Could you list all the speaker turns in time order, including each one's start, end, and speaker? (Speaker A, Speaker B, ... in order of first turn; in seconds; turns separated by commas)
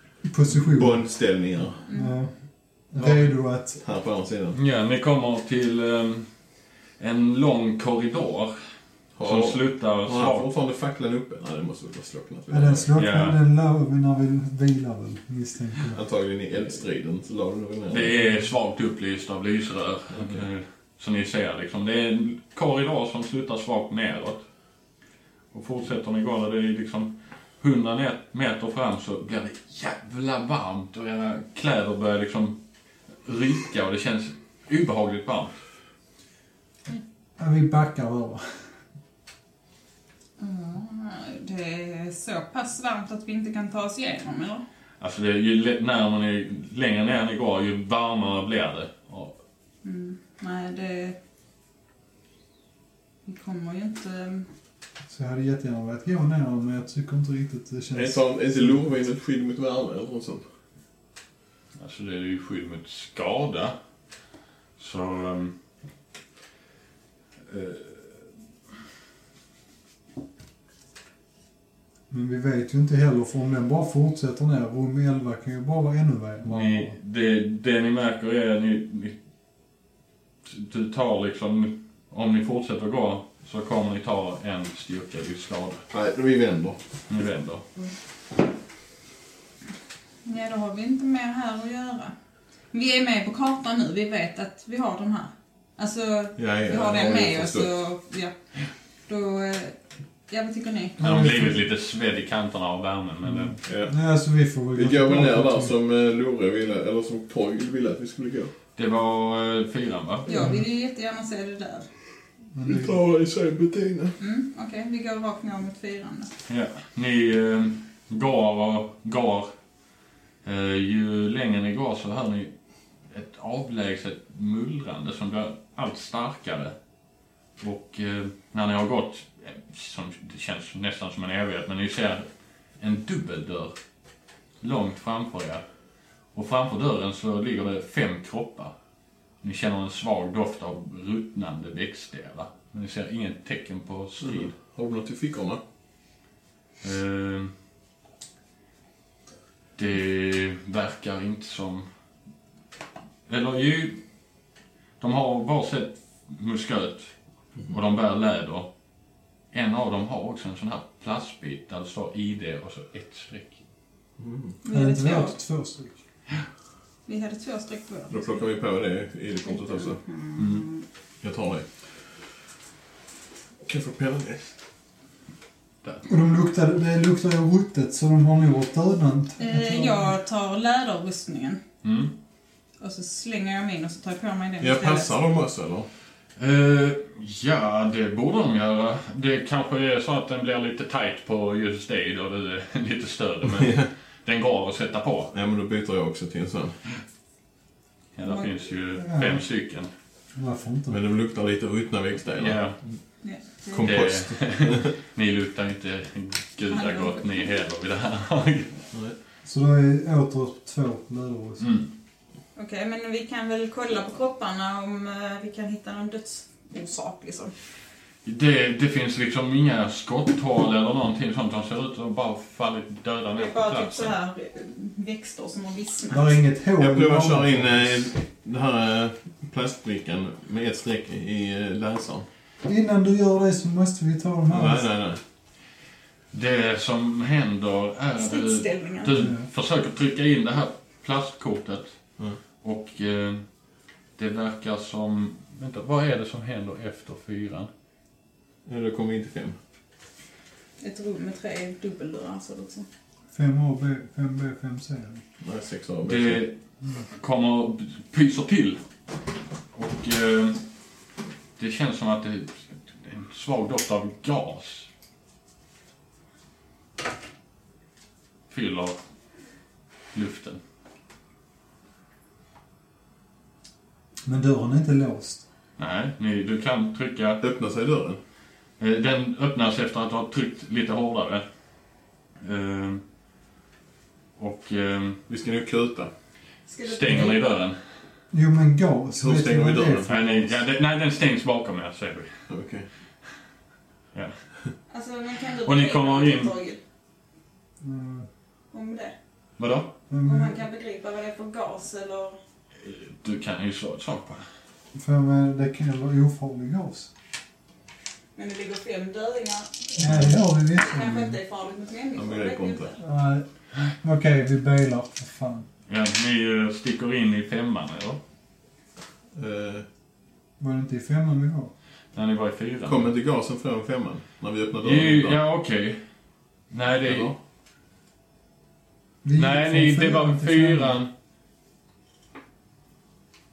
Speaker A: 0.3-1.0, Speaker B: 0.5-1.9, Speaker C: 1.9-2.1, Speaker A: 1.9-2.3, Speaker A: 2.9-3.8, Speaker B: 3.0-3.2, Speaker B: 3.8-4.5, Speaker D: 4.5-6.3, Speaker D: 7.0-8.6, Speaker B: 9.2-12.9, Speaker D: 9.2-10.5, Speaker A: 12.5-16.0, Speaker D: 12.9-13.4, Speaker B: 15.9-18.1, Speaker D: 17.9-24.4, Speaker B: 20.1-20.4, Speaker D: 25.5-32.6, Speaker D: 33.2-35.5, Speaker A: 37.4-38.7, Speaker C: 40.4-44.6, Speaker D: 45.0-49.4, Speaker C: 49.8-51.2, Speaker C: 53.3-54.5, Speaker A: 55.1-58.9, Speaker B: 57.9-60.4, Speaker D: 61.8-63.8, Speaker D: 64.8-65.5, Speaker D: 67.5-68.2, Speaker A: 72.1-76.9, Speaker D: 76.5-79.2, Speaker D: 80.5-85.8, Speaker B: 85.9-86.8, Speaker D: 87.1-87.7, Speaker C: 90.2-92.1, Speaker C: 92.7-98.3, Speaker B: 96.4-97.7, Speaker C: 99.1-99.8, Speaker C: 100.3-101.0, Speaker A: 101.0-101.6, Speaker D: 101.0-103.6, Speaker A: 103.2-105.7, Speaker B: 103.6-103.9, Speaker B: 104.7-108.5, Speaker D: 108.8-110.3, Speaker C: 110.3-111.9, Speaker A: 110.4-110.6, Speaker A: 112.5-113.0, Speaker B: 112.7-114.2, Speaker C: 114.2-116.3, Speaker D: 116.5-119.5, Speaker D: 120.4-122.5, Speaker D: 123.1-126.8, Speaker D: 127.6-132.3, Speaker D: 132.8-133.8, Speaker D: 134.6-135.6, Speaker D: 136.3-138.7, Speaker D: 139.4-144.5, Speaker B: 144.2-145.6, Speaker D: 146.8-147.5, Speaker D: 149.8-151.9, Speaker D: 153.3-154.0, Speaker D: 155.0-157.1, Speaker D: 157.7-158.7, Speaker D: 159.5-163.6, Speaker B: 164.2-164.6, Speaker C: 164.6-165.4, Speaker A: 164.7-166.0, Speaker C: 167.1-168.3, Speaker B: 168.1-170.0, Speaker C: 169.5-170.8, Speaker D: 170.4-170.7, Speaker B: 171.2-171.7, Speaker B: 173.7-174.5, Speaker A: 176.1-180.1, Speaker C: 179.4-181.6, Speaker D: 181.8-182.1, Speaker C: 182.8-185.1, Speaker B: 184.6-185.9, Speaker D: 186.4-195.3, Speaker B: 193.5-193.9, Speaker B: 195.3-196.8, Speaker D: 198.2-199.9, Speaker C: 198.2-198.5, Speaker A: 199.0-199.4, Speaker A: 200.4-201.0, Speaker B: 200.9-202.6, Speaker D: 202.3-202.8, Speaker C: 203.2-203.9, Speaker B: 203.7-204.9, Speaker D: 203.8-208.8, Speaker C: 206.7-207.5, Speaker A: 209.4-211.7, Speaker D: 211.6-211.9, Speaker C: 212.6-217.5, Speaker D: 218.2-224.2, Speaker C: 223.3-226.3, Speaker A: 226.1-228.1, Speaker B: 226.8-232.3, Speaker A: 232.7-234.9, Speaker B: 234.5-235.2, Speaker D: 236.3-241.9, Speaker C: 238.2-239.1, Speaker A: 239.2-239.5, Speaker D: 242.6-243.4, Speaker D: 244.2-247.7, Speaker B: 248.7-249.6, Speaker C: 250.8-252.9, Speaker A: 253.3-255.2, Speaker B: 255.4-256.4, Speaker D: 256.1-256.6, Speaker D: 257.1-258.8, Speaker D: 259.7-260.6, Speaker D: 261.6-264.9, Speaker D: 268.5-269.0, Speaker D: 270.1-270.6, Speaker A: 274.3-275.4, Speaker D: 275.8-277.4, Speaker B: 277.4-278.2, Speaker D: 278.8-281.4, Speaker D: 282.4-283.0, Speaker D: 284.4-285.2, Speaker B: 285.3-286.1, Speaker C: 286.7-287.6, Speaker D: 286.8-287.8, Speaker A: 288.3-290.6, Speaker B: 289.2-290.1, Speaker D: 290.1-292.3, Speaker B: 292.5-292.9, Speaker C: 294.9-296.8, Speaker D: 295.6-296.5, Speaker A: 297.8-298.3, Speaker C: 298.7-299.1, Speaker D: 299.6-299.9, Speaker A: 300.1-300.6, Speaker C: 300.2-302.4, Speaker D: 302.8-304.4, Speaker A: 304.9-307.1, Speaker C: 308.4-310.0, Speaker A: 310.0-311.4, Speaker D: 310.0-310.3, Speaker C: 310.6-313.0, Speaker B: 312.2-312.9, Speaker A: 313.0-313.5, Speaker A: 314.0-315.7, Speaker D: 315.9-318.2, Speaker B: 319.4-319.9, Speaker A: 320.6-321.7, Speaker D: 322.1-323.1, Speaker B: 322.9-325.4, Speaker D: 324.8-326.0, Speaker D: 326.7-327.3, Speaker B: 327.0-327.4, Speaker A: 329.2-331.0, Speaker D: 329.3-331.1